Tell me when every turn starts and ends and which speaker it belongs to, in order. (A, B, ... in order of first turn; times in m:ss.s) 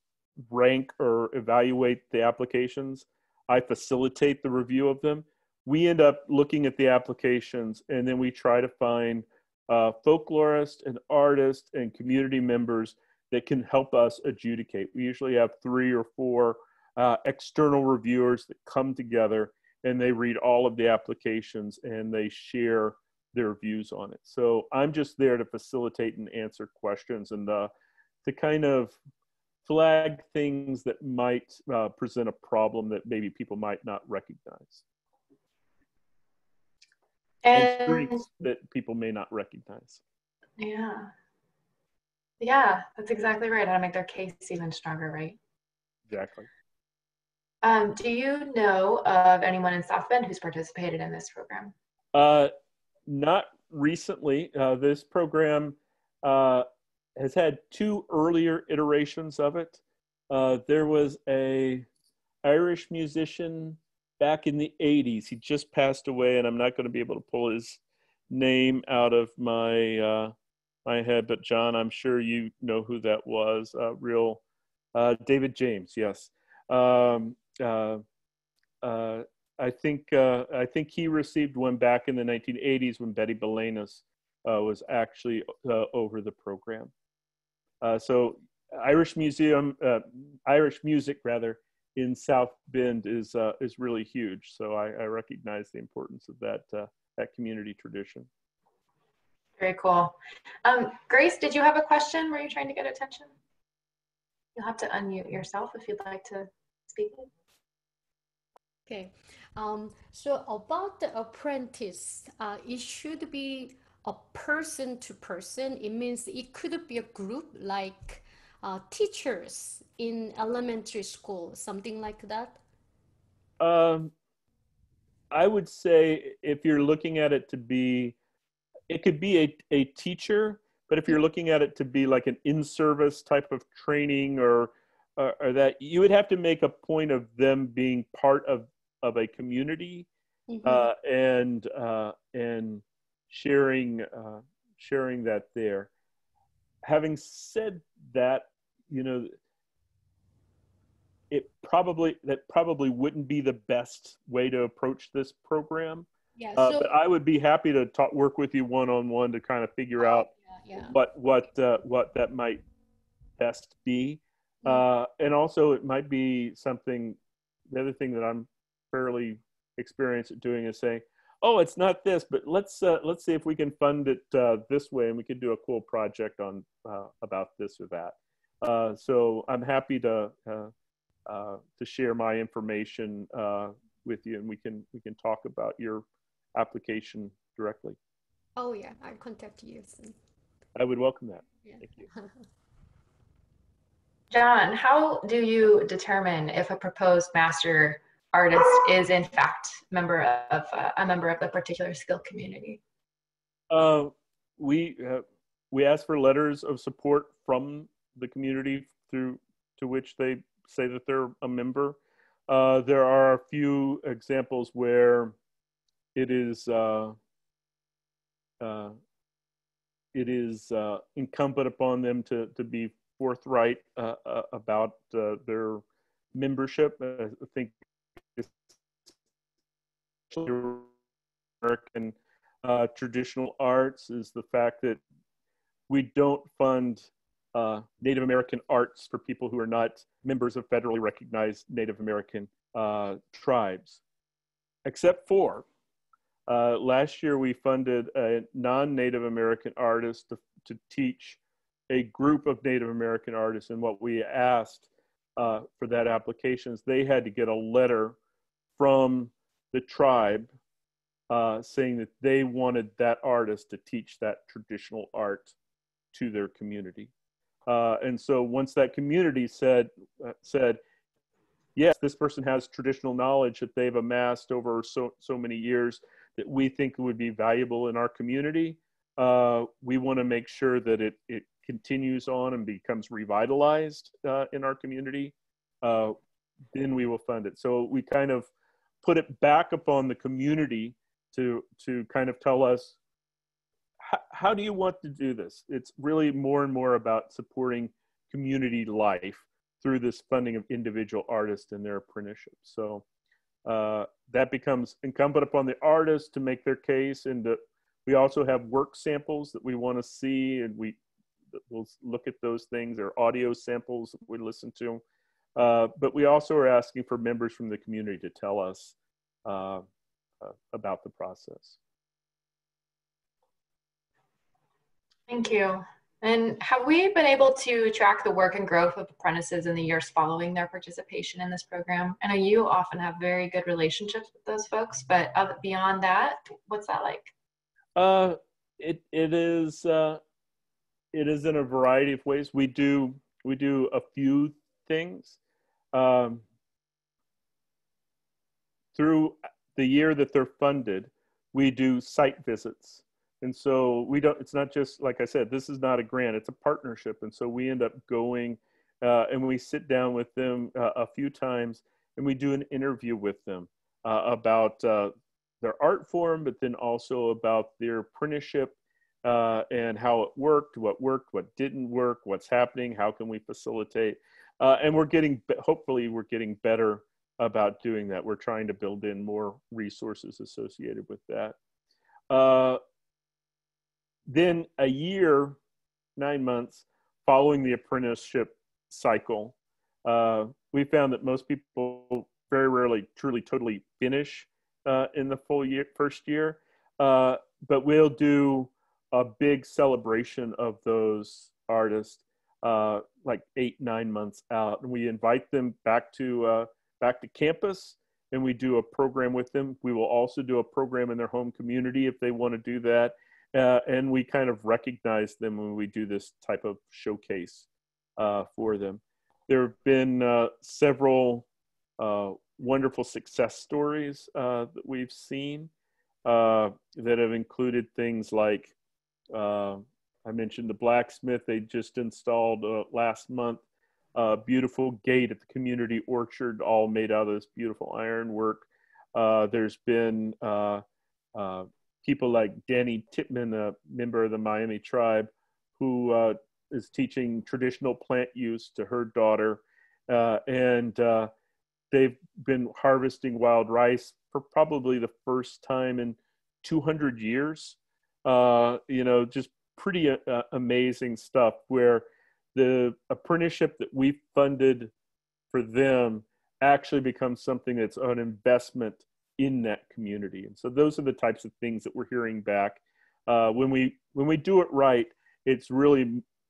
0:00.5-0:27.7 A
0:28.2-0:29.0 A
0:29.6-0:34.8 A
0:37.4-0:38.2 B
0:37.5-0:40.0 A
0:40.6-0:41.1 B
0:42.4-0:45.4 B
0:46.1-0:46.5 A
0:47.6-0:51.7 B
0:52.1-0:52.5 A
0:53.1-0:56.7 A
0:57.2-1:01.9 A
1:02.4-1:10.3 A
1:10.8-1:14.4 A
1:14.9-1:18.0 A
1:18.8-1:26.9 A
1:27.8-1:38.3 A
1:39.6-1:43.3 B
1:44.6-1:47.3 B
1:48.9-2:02.6 C
2:03.6-2:04.1 A
2:05.3-2:08.2 A
2:08.9-2:20.1 A
2:20.5-2:20.9 C
2:20.6-2:25.9 A
2:26.8-2:29.4 A
2:31.3-2:42.6 A
2:36.4-2:36.9 C
2:40.0-2:41.0 C
2:43.4-2:47.2 A
2:47.7-3:00.7 A
3:01.3-3:08.0 A
3:08.6-3:10.2 C
3:10.8-3:12.1 A
3:11.6-3:12.3 C
3:14.3-3:22.8 B
3:23.7-3:35.4 A
3:36.2-3:37.2 A
3:38.6-3:39.0 A
3:40.1-3:45.8 A
3:46.3-3:47.7 A
3:50.3-3:50.9 A
3:51.6-3:55.0 A
3:55.9-4:04.0 A
4:04.8-4:05.7 A
4:06.5-4:18.2 A
4:18.8-4:20.5 A
4:21.3-4:25.5 A
4:26.1-4:27.1 A
4:27.7-4:30.8 A
4:31.8-4:46.2 A
4:46.7-4:48.5 A
4:49.0-4:53.0 A
4:54.0-5:03.0 A
5:03.7-5:11.0 A
5:11.5-5:15.0 A
5:15.6-5:19.9 A
5:20.4-5:21.8 A
5:25.3-5:37.3 B
5:38.0-5:40.2 A
5:41.1-5:45.4 A
5:45.9-5:46.4 A
5:49.0-6:21.6 A
6:22.3-6:22.8 A
6:24.3-6:25.6 A
6:26.2-7:01.5 A
7:02.0-7:05.7 A
7:06.2-7:08.8 A
7:09.3-7:13.6 A
7:14.2-7:20.8 A
7:21.4-7:31.3 A
7:31.9-7:44.9 A
7:45.5-7:56.2 A